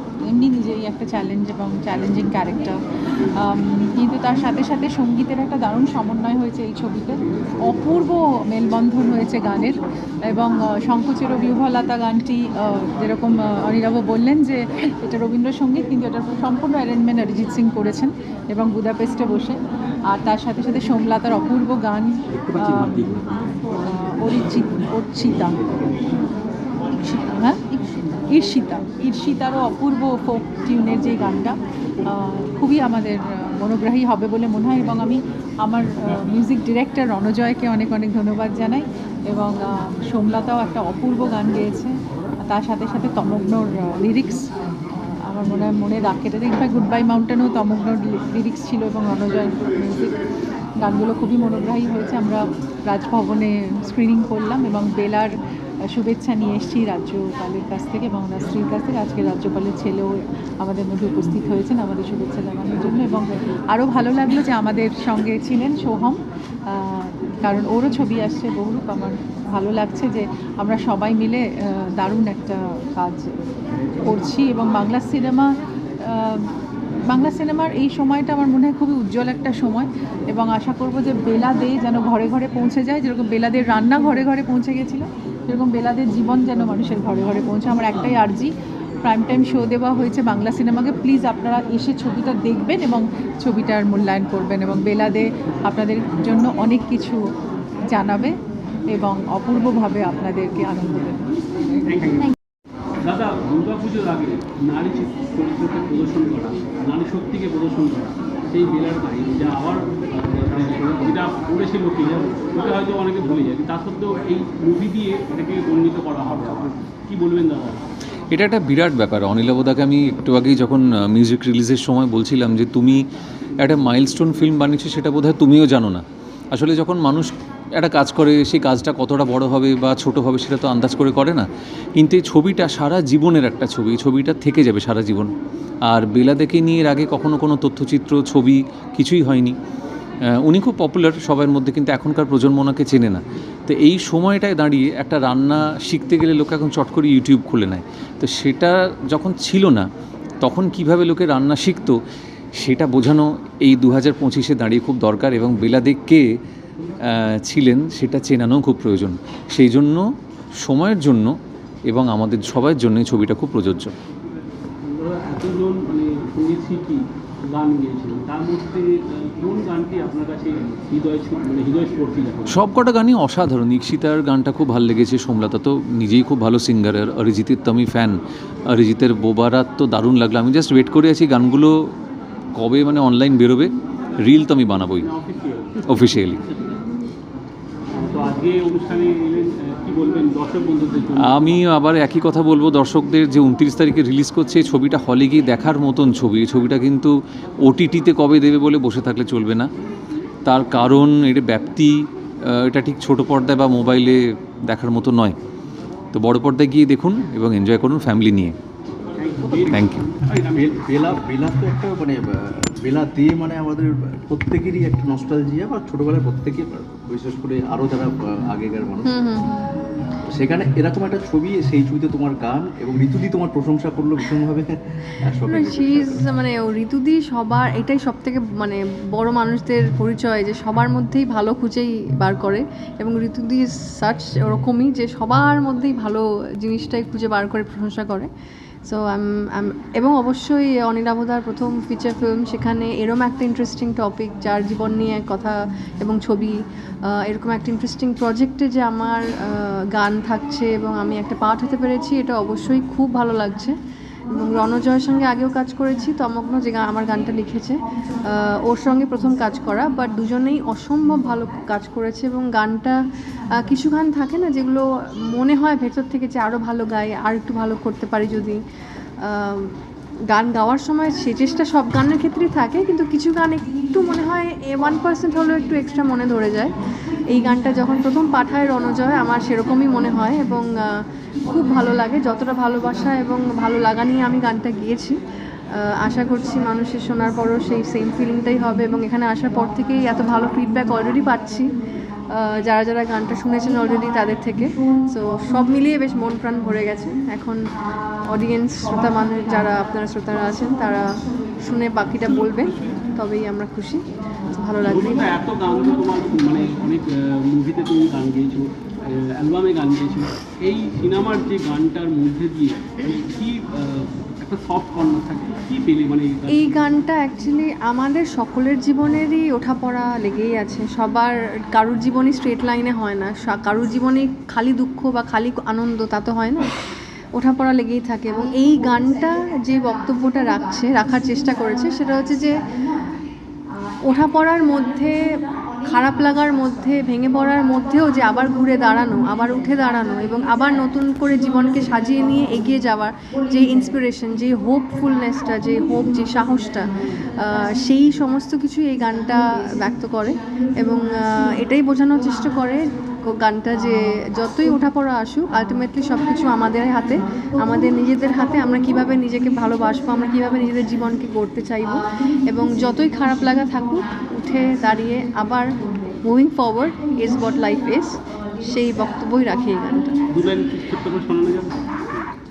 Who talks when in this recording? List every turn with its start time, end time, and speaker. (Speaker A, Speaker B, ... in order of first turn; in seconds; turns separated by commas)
Speaker A: 0.3-2.8, Speaker A: 3.4-23.1, Speaker A: 23.8-25.6, Speaker A: 27.0-44.4, Speaker A: 45.2-50.1, Speaker A: 50.8-55.3, Speaker A: 55.9-73.3, Speaker A: 74.0-75.5, Speaker A: 76.0-76.4, Speaker A: 77.0-97.2, Speaker A: 97.9-98.4, Speaker A: 98.9-101.3, Speaker B: 101.9-102.3, Speaker B: 103.0-117.8, Speaker C: 118.3-123.0, Speaker C: 123.6-135.3, Speaker C: 135.9-139.6, Speaker C: 140.2-149.9, Speaker C: 150.4-152.0, Speaker C: 152.6-156.3, Speaker C: 157.0-160.1, Speaker C: 160.6-163.9, Speaker B: 164.8-172.6, Speaker C: 172.5-181.8, Speaker C: 182.6-185.1, Speaker B: 185.0-186.8, Speaker C: 185.9-186.4, Speaker B: 187.9-191.6, Speaker C: 191.2-199.7, Speaker C: 200.4-205.3, Speaker C: 206.1-208.6, Speaker B: 209.2-210.8, Speaker D: 209.5-209.8, Speaker C: 209.7-210.0, Speaker D: 210.5-219.2, Speaker E: 219.1-219.6, Speaker D: 220.3-226.3, Speaker E: 225.5-238.3, Speaker E: 238.8-246.5, Speaker E: 247.1-253.8, Speaker E: 254.3-257.8, Speaker E: 258.3-262.9, Speaker E: 263.6-268.6, Speaker E: 269.2-269.8, Speaker E: 270.3-276.7, Speaker E: 277.2-285.2, Speaker E: 285.8-291.7, Speaker E: 292.3-297.6, Speaker E: 298.2-301.1, Speaker E: 301.6-305.2, Speaker B: 302.2-303.0, Speaker B: 304.8-316.9, Speaker E: 316.5-326.7, Speaker E: 327.4-332.6, Speaker E: 334.1-365.7, Speaker E: 366.2-370.2, Speaker B: 370.3-371.8